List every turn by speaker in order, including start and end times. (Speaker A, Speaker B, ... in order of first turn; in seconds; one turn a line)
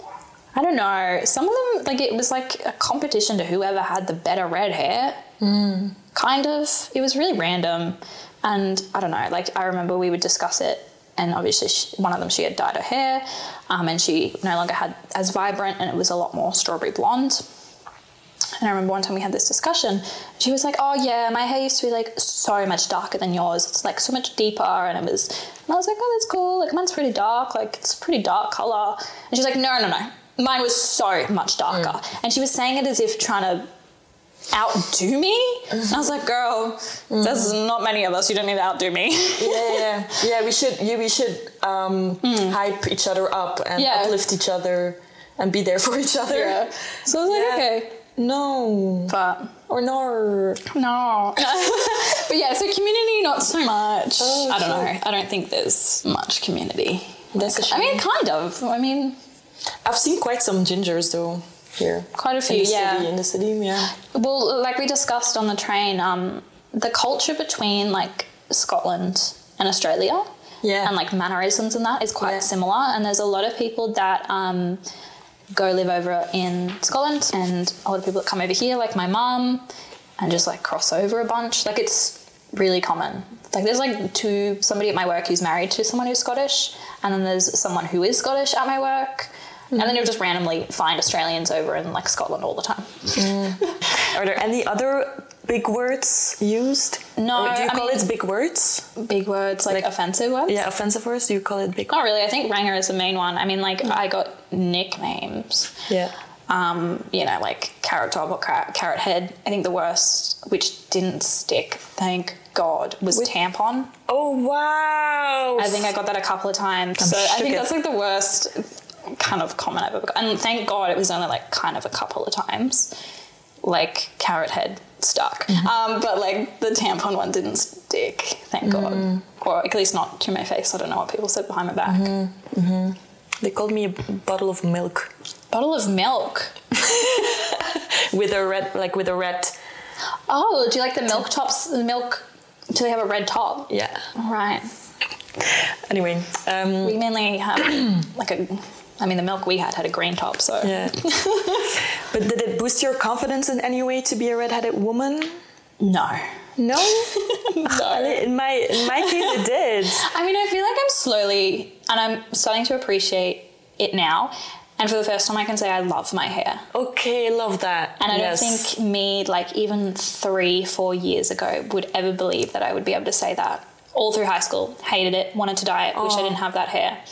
Speaker A: 0.5-5.3
Speaker B: 5.4-6.0
Speaker A: 6.1-17.4
Speaker A: 18.6-33.7
Speaker A: 34.5-39.9
Speaker B: 35.7-36.0
Speaker B: 37.1-37.5
Speaker B: 39.4-46.7
Speaker A: 42.2-42.6
Speaker A: 43.8-44.2
Speaker A: 46.3-48.0
Speaker B: 47.2-49.1
Speaker A: 49.1-49.6
Speaker B: 49.7-50.6
Speaker A: 50.7-59.2
Speaker B: 54.2-54.9
Speaker B: 57.3-58.0
Speaker B: 59.9-63.9
Speaker A: 62.2-63.1
Speaker A: 64.0-70.3
Speaker B: 70.6-70.9
Speaker A: 70.8-74.8
Speaker A: 75.5-79.7
Speaker A: 80.2-93.2
Speaker B: 93.1-98.9
Speaker A: 97.2-98.1
Speaker A: 99.0-100.6
Speaker B: 100.5-101.9
Speaker A: 101.9-105.8
Speaker B: 105.9-106.1
Speaker A: 106.5-113.9
Speaker B: 114.1-115.9
Speaker A: 115.6-122.9
Speaker B: 117.0-117.7
Speaker A: 123.6-132.1
Speaker B: 128.6-129.2
Speaker B: 131.9-135.1
Speaker A: 135.5-136.6
Speaker B: 136.8-139.6
Speaker A: 140.3-144.7
Speaker B: 143.7-144.0
Speaker B: 145.4-147.0
Speaker A: 146.8-151.8
Speaker B: 150.6-151.1
Speaker B: 152.0-155.4
Speaker A: 155.8-156.3
Speaker B: 156.6-160.1
Speaker A: 156.8-159.4
Speaker A: 160.0-166.7
Speaker B: 166.7-168.7
Speaker A: 168.0-177.0
Speaker B: 175.9-176.4